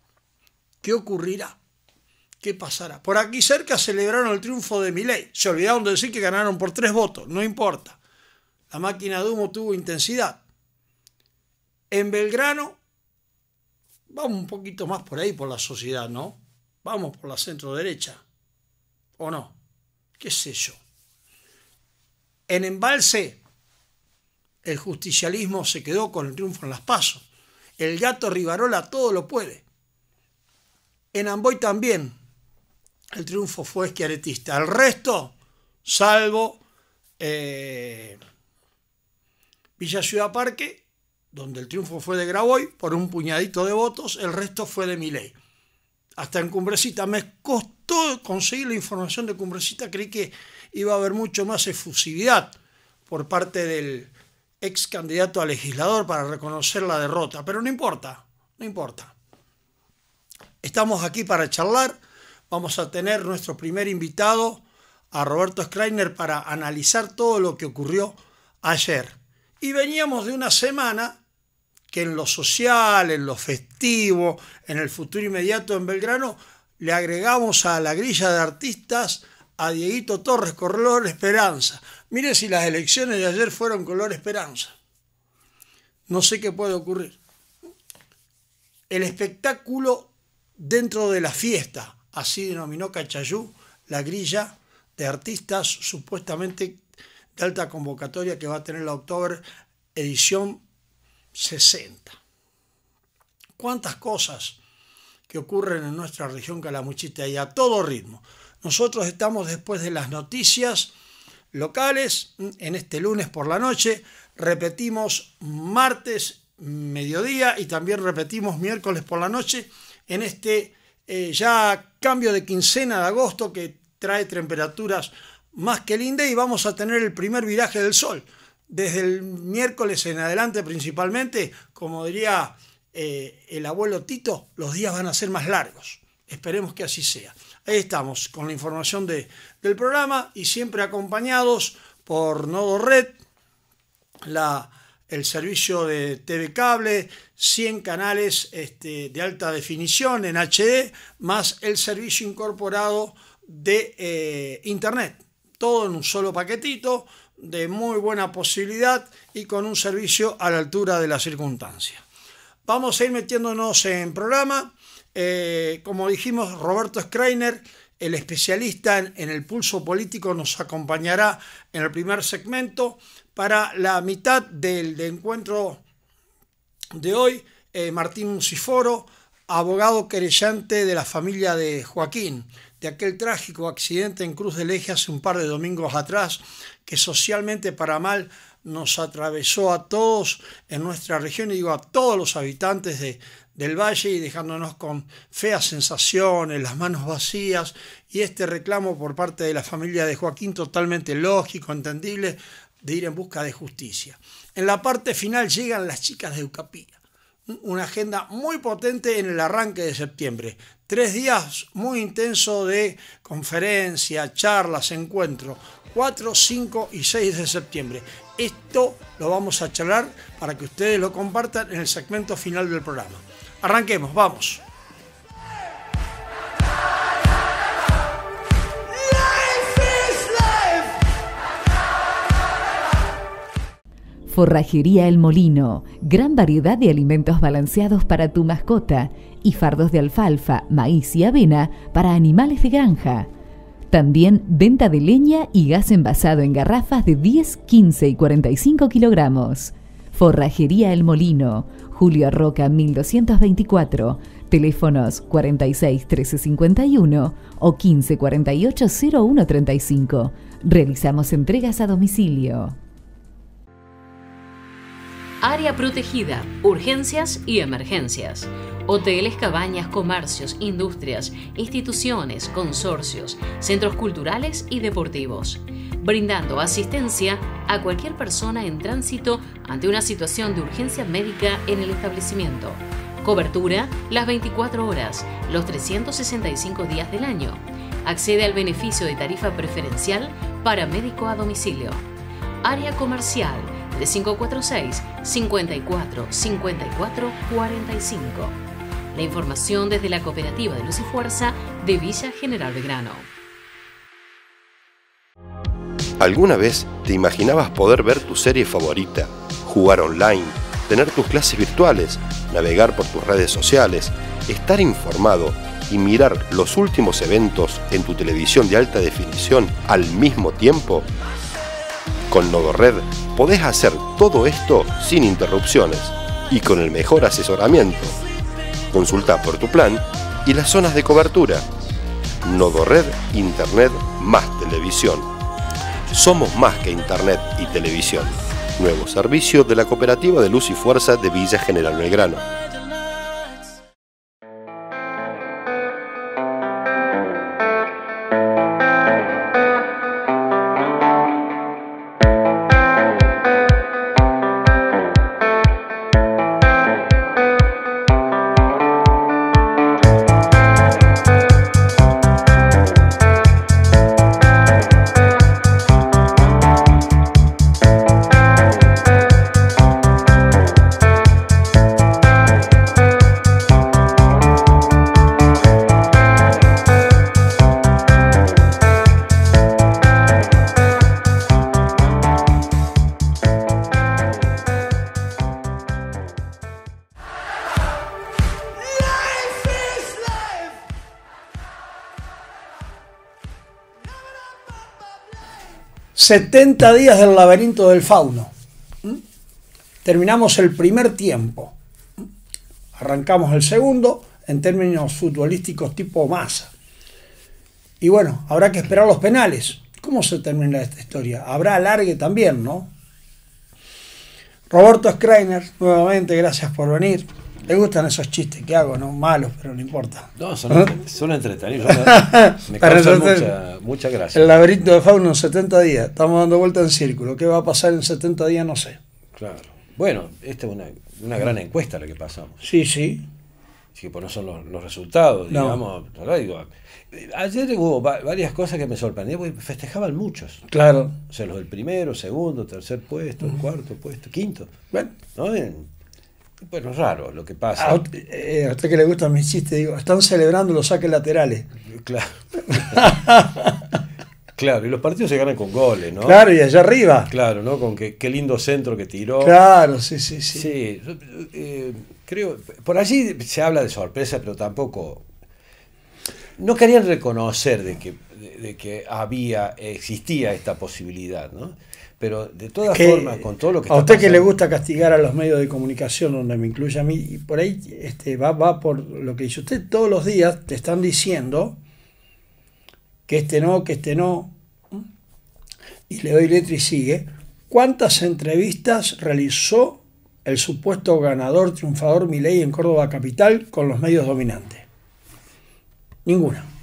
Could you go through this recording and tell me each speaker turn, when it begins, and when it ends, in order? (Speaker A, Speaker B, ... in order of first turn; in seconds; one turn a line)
Speaker A: 0.8-1.6
Speaker A: 2.4-8.0
Speaker A: 8.7-10.4
Speaker A: 11.9-12.8
Speaker A: 14.1-18.2
Speaker A: 19.2-19.6
Speaker A: 20.2-20.8
Speaker A: 22.5-23.4
Speaker A: 24.6-27.2
Speaker A: 27.8-29.6
Speaker A: 31.1-32.1
Speaker A: 33.1-35.3
Speaker A: 35.9-36.6
Speaker A: 37.2-38.2
Speaker A: 39.8-45.3
Speaker A: 46.2-52.5
Speaker A: 53.1-59.1
Speaker A: 60.6-62.0
Speaker A: 62.5-71.2
Speaker A: 71.9-84.7
Speaker A: 86.1-87.2
Speaker A: 88.9-96.8
Speaker A: 97.4-99.4
Speaker A: 99.9-100.6
Speaker A: 101.3-102.2
Speaker A: 103.6-104.6
Speaker A: 105.3-110.9
Speaker A: 111.5-143.2
Speaker A: 144.2-162.0
Speaker A: 162.7-175.8
Speaker A: 176.9-224.6
Speaker B: 234.3-243.3
Speaker B: 243.9-262.8
Speaker C: 265.4-292.1
Speaker C: 292.6-298.6
Speaker C: 299.1-303.3
Speaker D: 306.2-321.1
Speaker D: 322.3-328.2
Speaker D: 328.9-331.7
Speaker D: 332.4-335.3
Speaker D: 336.1-342.4
Speaker A: 396.1-398.5
Speaker A: 400.0-401.8
Speaker A: 402.9-406.7
Speaker A: 408.0-412.9
Speaker A: 414.7-420.9
Speaker E: 420.4-424.6
Speaker A: 422.0-423.5
Speaker A: 424.3-429.0
Speaker E: 429.3-432.6
Speaker A: 432.6-433.3
Speaker E: 433.9-440.7
Speaker A: 435.5-435.8
Speaker A: 440.7-441.2
Speaker E: 441.3-444.7
Speaker E: 445.3-445.9
Speaker E: 446.6-448.0
Speaker A: 447.8-451.7
Speaker E: 451.9-453.1
Speaker A: 452.8-453.7
Speaker E: 454.6-456.4
Speaker A: 456.2-457.3
Speaker E: 457.3-459.6
Speaker A: 459.4-460.6
Speaker E: 460.5-465.2
Speaker E: 466.6-474.5
Speaker A: 472.9-481.8
Speaker A: 483.3-485.0
Speaker A: 486.1-494.9
Speaker A: 496.2-496.7